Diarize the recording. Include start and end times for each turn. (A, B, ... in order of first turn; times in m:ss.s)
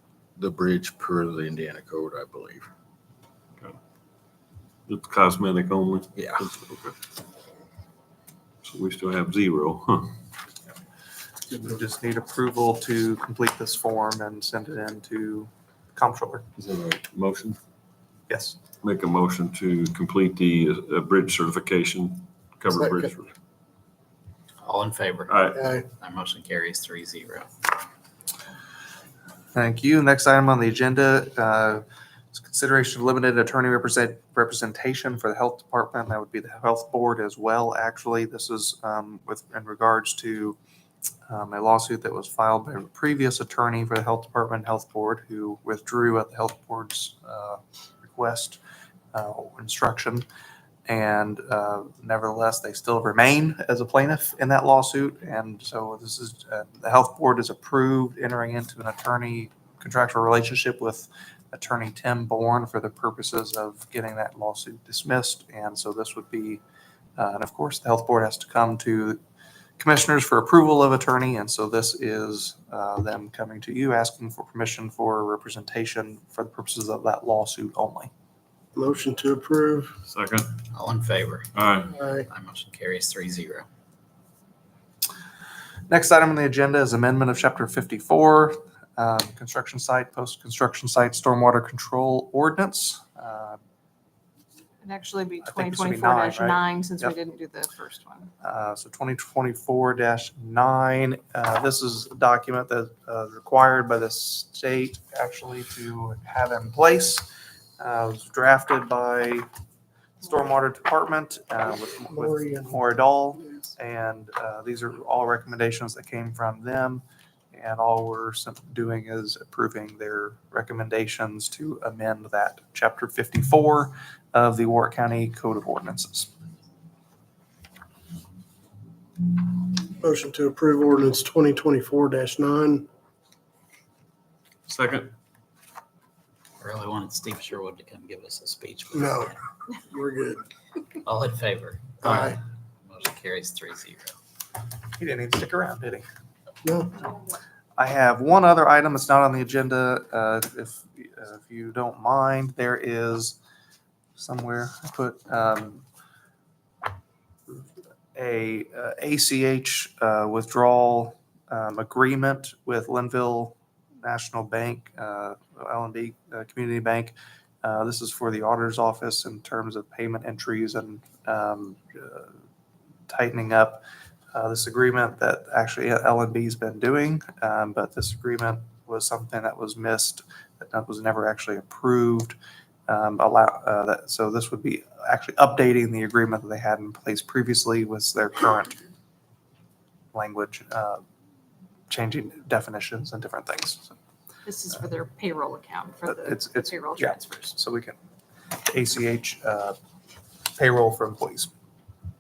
0:00.4-0:02.7 A
0:04.9-0:06.9 B
0:06.2-0:06.4 A
0:08.6-0:10.1 B
0:11.5-0:16.5 C
0:16.6-0:17.6 B
0:18.3-0:18.6 C
0:18.8-0:23.3 B
0:22.7-0:23.1 D
0:24.6-0:27.7 E
0:25.3-0:25.7 B
0:25.5-0:25.9 D
0:29.5-0:40.6 C
0:41.3-0:48.6 C
0:49.1-0:50.3 C
0:50.9-1:06.6 C
1:07.2-1:09.2 C
1:09.8-1:18.1 C
1:18.8-1:19.9 D
1:20.1-1:20.6 B
1:20.7-1:21.5 E
1:21.6-1:22.0 B
1:21.9-1:22.3 D
1:22.3-1:23.7 E
1:25.9-1:33.6 C
1:34.8-1:38.3 F
1:35.4-1:37.2 C
1:38.4-1:47.3 C
1:47.8-1:49.5 C
1:50.2-2:06.3 C
1:52.1-1:52.7 D
2:09.9-2:12.9 D
2:14.7-2:15.1 B
2:16.6-2:19.4 E
2:19.0-2:20.4 D
2:21.0-2:24.1 E
2:22.0-2:22.4 D
2:25.0-2:26.1 C
2:26.6-2:26.9 D
2:27.8-2:33.4 C
2:34.2-2:35.8 C
2:37.5-2:52.3 C
2:53.1-3:02.4 C
3:02.9-3:08.8 C
3:10.1-3:11.0 C
3:11.9-3:13.9 C
3:14.5-3:17.5 F
3:16.1-3:18.0 C
3:18.6-3:19.8 C
3:20.6-3:21.5 C